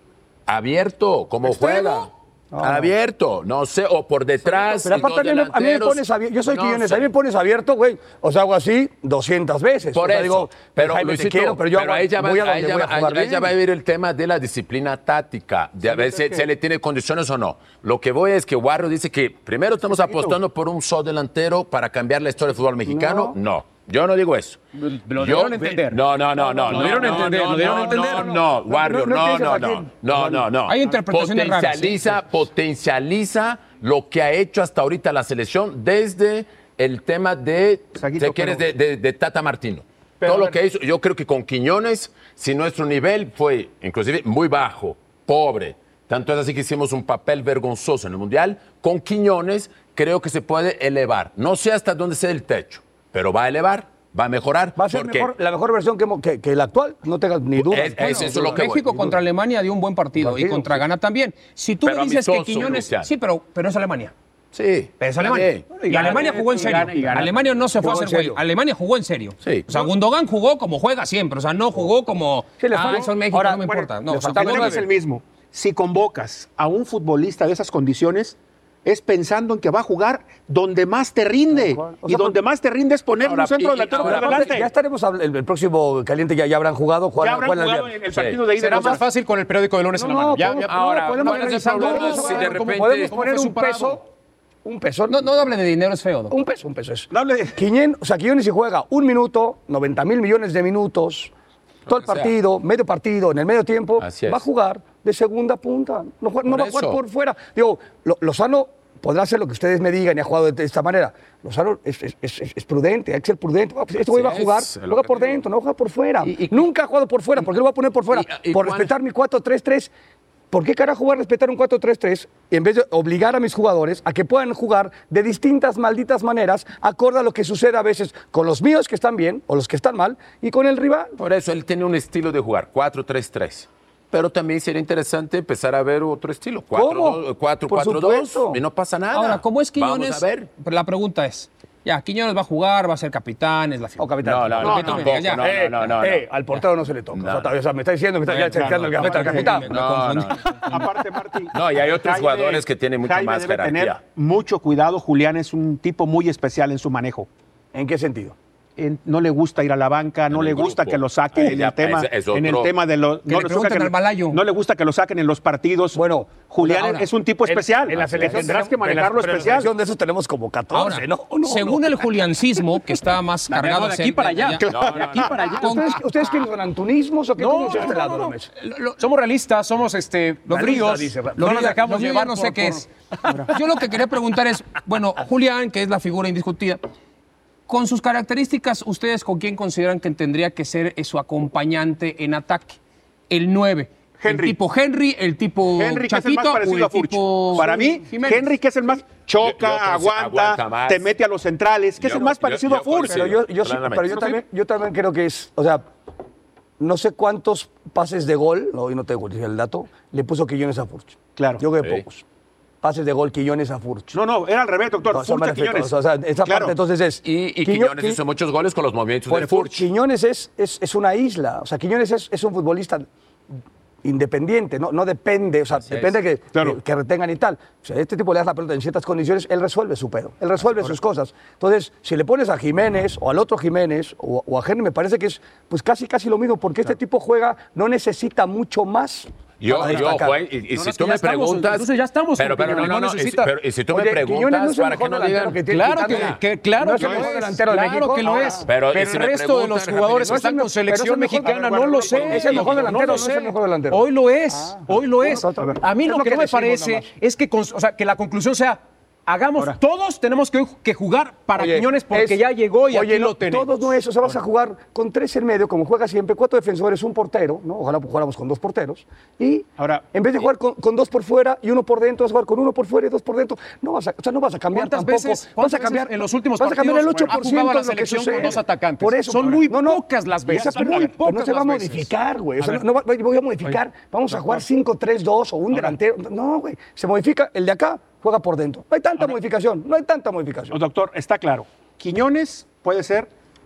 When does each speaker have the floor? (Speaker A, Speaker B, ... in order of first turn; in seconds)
Speaker A: 0.5-2.1, 2.6-7.1, 9.9-24.6, 25.1-55.3, 57.6-59.0, 61.8-63.1, 64.5-65.7, 69.4-69.8, 83.2-84.6, 88.1-88.5, 90.5-93.1, 101.9-102.3, 104.0-104.4, 106.5-107.0, 114.1-115.4, 116.2-116.7, 118.1-118.9, 131.2-140.5, 144.2-147.5, 148.3-148.7, 149.5-150.9, 151.5-154.0, 160.3-162.7, 167.9-168.5, 174.7-175.4, 199.4-201.1, 202.0-204.4, 217.2-219.9, 225.8-226.2, 239.6-246.4, 248.7-250.5
Speaker B: 1.4-2.9, 4.7-13.5, 22.9-23.4, 26.6-30.5, 54.8-59.1, 60.2-60.8, 67.8-68.4, 72.6-74.9, 81.5-82.4, 84.0-87.9, 89.9-94.0, 94.6-95.3, 96.3-101.3, 101.9-119.9, 120.5-131.2, 136.7-138.6, 144.0-149.8, 157.7-158.3, 165.9-166.4, 167.4-172.1, 175.6-178.5, 180.5-181.8, 203.1-205.8, 206.8-212.2, 212.8-214.1, 215.1-218.2, 219.3-223.1, 224.0-240.4, 243.9-248.7, 250.2-251.6, 252.1-254.1, 254.7-257.1, 261.6-290.8
Speaker C: 15.9-16.4, 20.0-20.4, 38.0-38.6, 40.2-40.6, 65.9-67.4, 72.8-84.7, 87.2-89.0, 97.1-97.5, 144.6-145.0, 148.3-149.7, 150.7-157.3, 158.8-169.7, 174.6-175.6, 194.2-194.6, 195.7-203.3, 211.4-211.6, 214.1-215.9, 216.4-216.7, 247.0-247.3, 251.4-253.3, 269.8-270.0, 280.5-281.1, 290.7-293.3
Speaker D: 24.8-26.0, 26.6-28.3, 65.7-67.3, 88.5-94.0, 173.5-175.7, 177.4-178.3, 179.0-182.9, 240.7-243.5, 245.7-263.9, 274.7-282.1
Speaker E: 30.7-32.1, 58.0-64.1, 65.0-74.8, 95.1-96.3, 139.1-144.1, 144.6-145.4, 148.9-150.8, 163.3-164.4, 166.6-167.1, 170.7-174.6, 175.4-176.0, 178.6-179.0, 181.4-182.8, 183.5-186.8, 187.7-192.8, 193.3-198.5